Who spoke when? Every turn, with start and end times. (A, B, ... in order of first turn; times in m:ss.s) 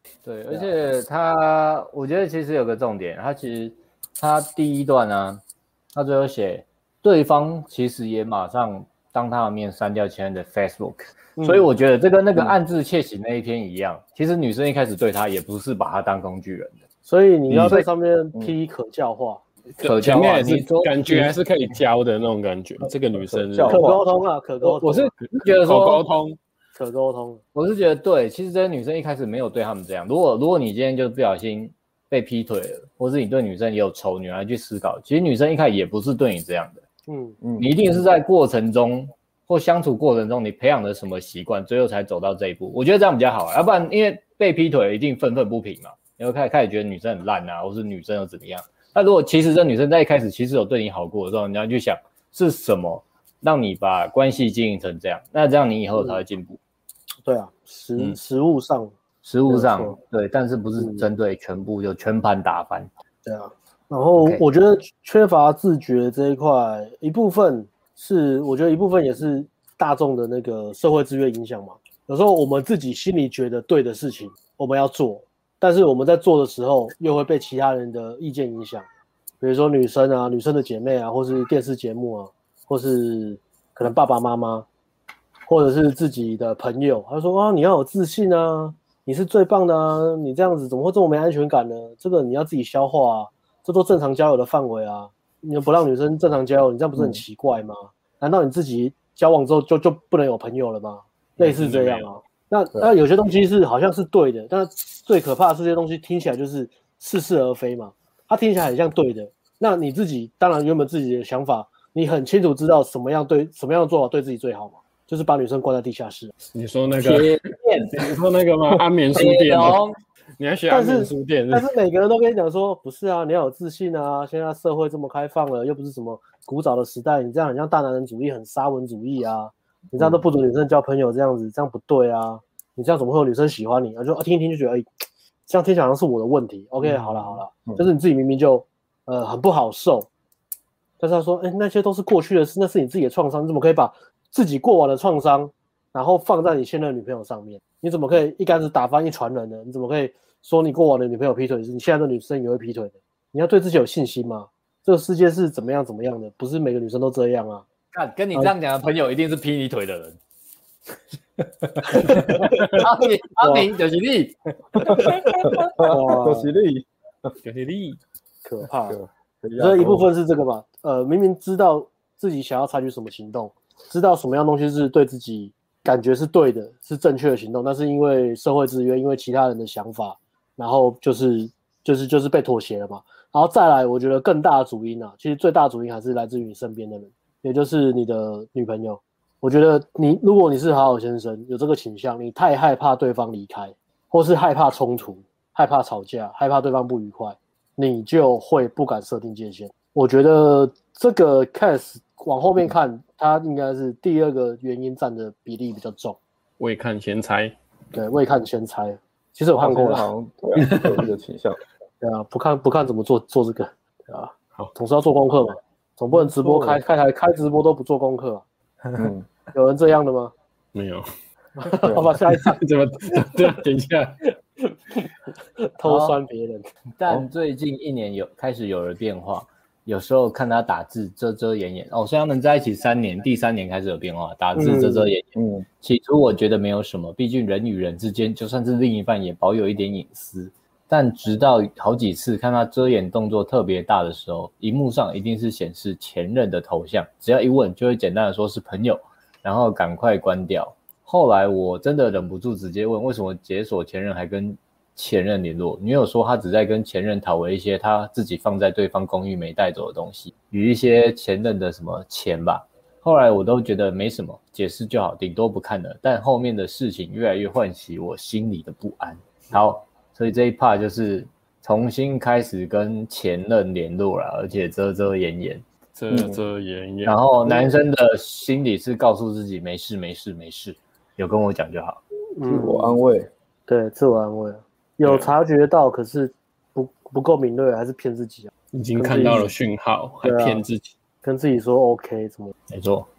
0:00.2-0:05.4 A
0:05.9-0:16.8 A
0:11.4-0:11.7 B
0:12.3-0:12.6 C
0:17.1-0:19.4 B
0:17.6-0:17.9 A
0:19.8-0:23.8 D
0:19.8-0:21.4 A
0:23.2-0:24.0 C
0:23.7-0:25.1 B
0:24.6-0:26.0 A
0:25.3-0:26.4 D
0:26.8-0:27.4 B
0:27.5-0:36.8 A
0:37.1-0:37.4 B
0:37.4-0:38.0 C
0:37.6-0:56.6 A
0:57.2-0:58.9 B
0:59.2-1:02.9 A
0:59.5-1:00.0 B
1:00.8-1:01.1 B
1:03.2-1:18.9 B
1:19.4-1:24.7 B
1:25.5-1:56.3 B
1:41.4-1:42.1 D
1:56.5-1:59.8 D
1:57.0-1:58.2 A
1:59.1-2:00.0 A
2:00.4-2:01.7 D
2:00.7-2:14.9 B
2:15.5-2:20.1 B
2:16.8-2:17.8 C
2:21.0-2:37.6 B
2:37.9-2:40.2 A
2:41.4-2:45.7 A
2:42.0-2:42.3 B
2:43.4-2:43.7 B
2:44.8-2:47.3 C
2:45.8-2:46.5 B
2:47.4-2:48.0 D
2:48.4-2:49.0 B
2:48.9-2:50.1 C
2:49.6-3:26.2 B
3:26.6-3:27.6 D
3:27.9-3:30.1 B
3:29.6-3:31.6 C
3:30.6-3:31.0 D
3:32.0-3:38.4 B
3:36.1-3:36.8 C
3:39.0-3:39.3 C
3:39.5-3:40.3 B
3:40.7-3:41.1 D
3:41.6-3:42.6 B
3:41.8-3:42.1 C
3:42.3-3:44.2 D
3:45.6-3:46.7 B
3:45.8-3:46.2 A
3:47.0-4:35.6 A
3:54.6-3:55.1 B
3:55.4-3:55.7 C
4:36.0-4:37.6 D
4:36.1-4:36.4 C
4:37.0-4:42.0 A
4:42.4-4:43.0 B
4:42.5-4:43.3 C
4:43.7-4:49.5 B
4:45.0-4:45.3 D
4:48.7-4:50.9 D
4:50.2-4:50.6 B
4:51.2-4:52.5 B
4:52.7-4:53.1 A